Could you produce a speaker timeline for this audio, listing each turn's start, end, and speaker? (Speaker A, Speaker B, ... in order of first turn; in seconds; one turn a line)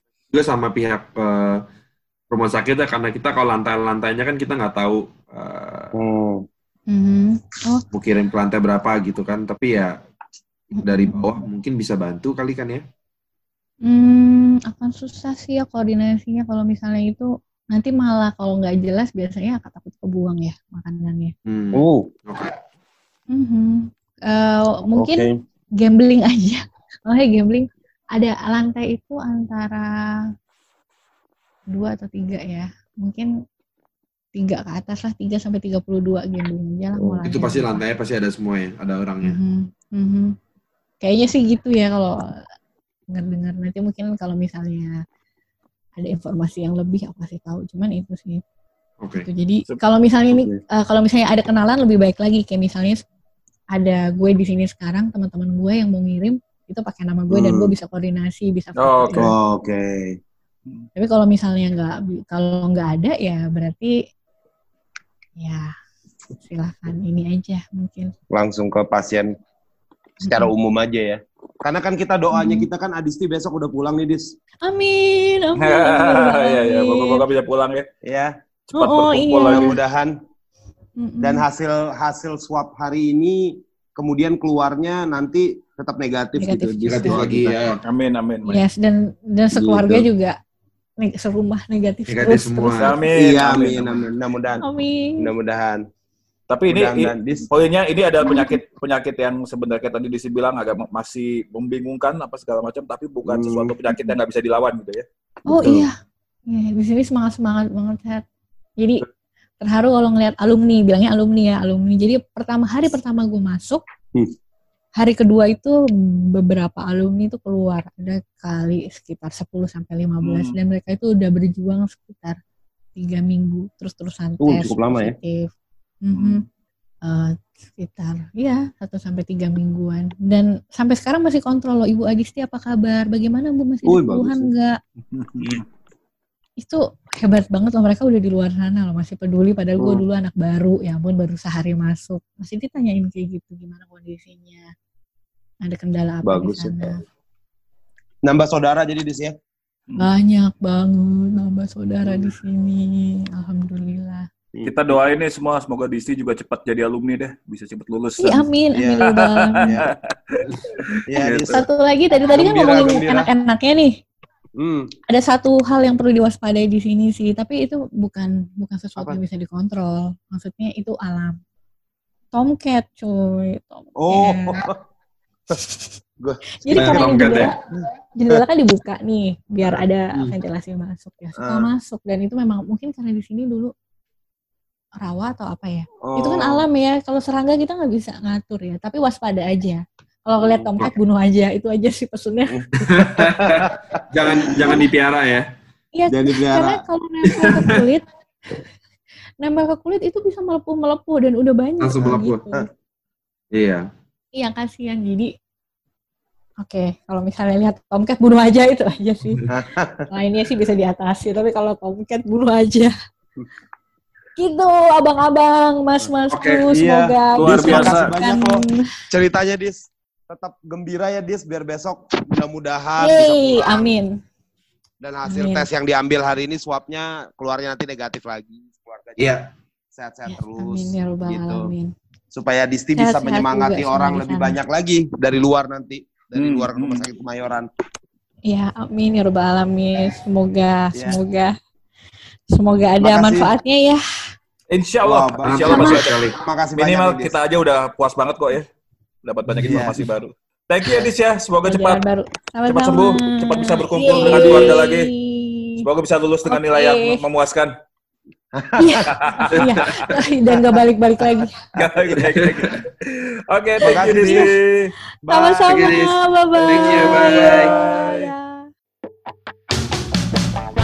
Speaker A: 0.3-1.6
Speaker A: 2.3-5.9
Speaker B: 5.9-6.4
Speaker C: 6.9-7.8
Speaker A: 7.9-9.9
Speaker C: 10.8-11.4
Speaker A: 10.8-12.8
Speaker C: 13.8-21.3
Speaker A: 21.5-22.5
Speaker B: 21.7-22.1
Speaker C: 23.3-25.2
Speaker B: 25.0-25.3
Speaker C: 25.8-29.9
Speaker C: 31.7-33.3
Speaker C: 34.3-37.8
Speaker B: 37.0-37.2
Speaker A: 37.2-39.4
Speaker C: 39.2-40.4
Speaker C: 41.0-42.1
Speaker C: 43.1-45.0
Speaker C: 46.0-48.4
Speaker A: 49.0-49.3
Speaker C: 49.1-53.0
Speaker B: 50.3-50.6
Speaker C: 53.7-59.3
Speaker B: 57.3-57.7
Speaker D: 58.8-59.2
Speaker B: 59.1-60.2
Speaker C: 61.0-63.9
Speaker C: 65.4-65.7
Speaker C: 66.4-68.1
Speaker B: 68.3-69.3
Speaker C: 70.2-70.5
Speaker B: 70.2-74.3
Speaker C: 72.3-72.7
Speaker C: 74.6-77.3
Speaker D: 75.6-77.8
Speaker B: 78.0-78.3
Speaker D: 78.7-79.8
Speaker C: 78.8-79.7
Speaker B: 79.5-80.1
Speaker C: 81.0-81.4
Speaker B: 81.2-87.3
Speaker C: 86.4-87.3
Speaker A: 86.8-87.8
Speaker D: 87.3-88.6
Speaker C: 88.5-90.3
Speaker B: 89.5-90.1
Speaker C: 91.0-93.0
Speaker A: 92.1-92.9
Speaker D: 92.8-94.1
Speaker B: 93.2-94.6
Speaker C: 94.6-95.3
Speaker B: 95.2-95.8
Speaker D: 96.5-105.0
Speaker B: 96.7-97.5
Speaker C: 98.2-98.6
Speaker B: 103.2-103.8
Speaker B: 105.5-105.9
Speaker C: 105.5-105.9
Speaker C: 106.5-108.2
Speaker C: 108.8-109.0
Speaker C: 109.6-113.8
Speaker C: 115.0-122.4
Speaker D: 120.2-120.5
Speaker C: 123.0-125.5
Speaker B: 124.4-125.2
Speaker C: 126.0-126.4
Speaker D: 126.1-126.4
Speaker C: 127.0-134.8
Speaker B: 133.8-134.5
Speaker D: 135.1-135.6
Speaker C: 136.6-144.7
Speaker C: 145.6-147.0
Speaker B: 146.2-146.9
Speaker B: 148.2-149.3
Speaker C: 150.0-154.3
Speaker D: 154.6-158.4
Speaker C: 158.2-159.8
Speaker B: 158.7-159.0
Speaker D: 159.1-161.6
Speaker B: 159.6-159.9
Speaker B: 161.1-161.6
Speaker C: 161.5-163.9
Speaker B: 162.3-163.3
Speaker B: 164.6-164.9
Speaker C: 165.1-171.4
Speaker C: 172.3-174.6
Speaker B: 174.0-174.8
Speaker C: 175.5-175.9
Speaker B: 176.2-177.4
Speaker C: 176.6-177.6
Speaker A: 176.7-177.5
Speaker C: 178.2-183.7
Speaker B: 181.4-181.7
Speaker C: 185.0-192.6
Speaker B: 186.0-186.7
Speaker B: 190.4-190.7
Speaker B: 192.5-194.8
Speaker A: 192.8-195.5
Speaker C: 195.9-198.0
Speaker B: 196.1-196.8
Speaker C: 199.4-202.6
Speaker A: 201.8-202.4
Speaker B: 202.2-202.6
Speaker A: 203.5-203.9
Speaker C: 204.3-205.3
Speaker C: 206.6-209.4
Speaker B: 209.5-210.1
Speaker C: 210.1-212.9
Speaker C: 214.4-218.8
Speaker A: 216.3-216.7
Speaker B: 216.7-223.9
Speaker D: 217.3-218.1
Speaker C: 223.0-224.1
Speaker B: 225.0-229.3
Speaker C: 225.3-225.7
Speaker A: 229.2-229.5
Speaker B: 229.9-231.7
Speaker C: 230.3-231.9
Speaker B: 232.3-237.7
Speaker C: 233.0-234.6
Speaker D: 236.3-237.1
Speaker C: 238.5-241.6
Speaker C: 242.5-244.0
Speaker B: 243.0-243.5
Speaker D: 244.7-248.7
Speaker B: 245.0-247.3
Speaker A: 245.4-246.4
Speaker D: 249.2-252.0
Speaker B: 249.6-250.1
Speaker C: 251.7-255.8
Speaker D: 252.7-255.1
Speaker B: 254.0-254.8
Speaker D: 255.8-257.7
Speaker C: 256.5-257.2
Speaker B: 258.5-259.1
Speaker C: 258.8-261.6
Speaker D: 259.2-260.0
Speaker A: 259.5-260.2
Speaker B: 260.5-260.8
Speaker D: 261.7-264.9
Speaker A: 262.1-262.7
Speaker B: 263.8-264.5
Speaker C: 264.2-264.5
Speaker B: 265.2-265.9
Speaker C: 265.3-268.7
Speaker A: 265.7-267.7
Speaker D: 266.7-268.3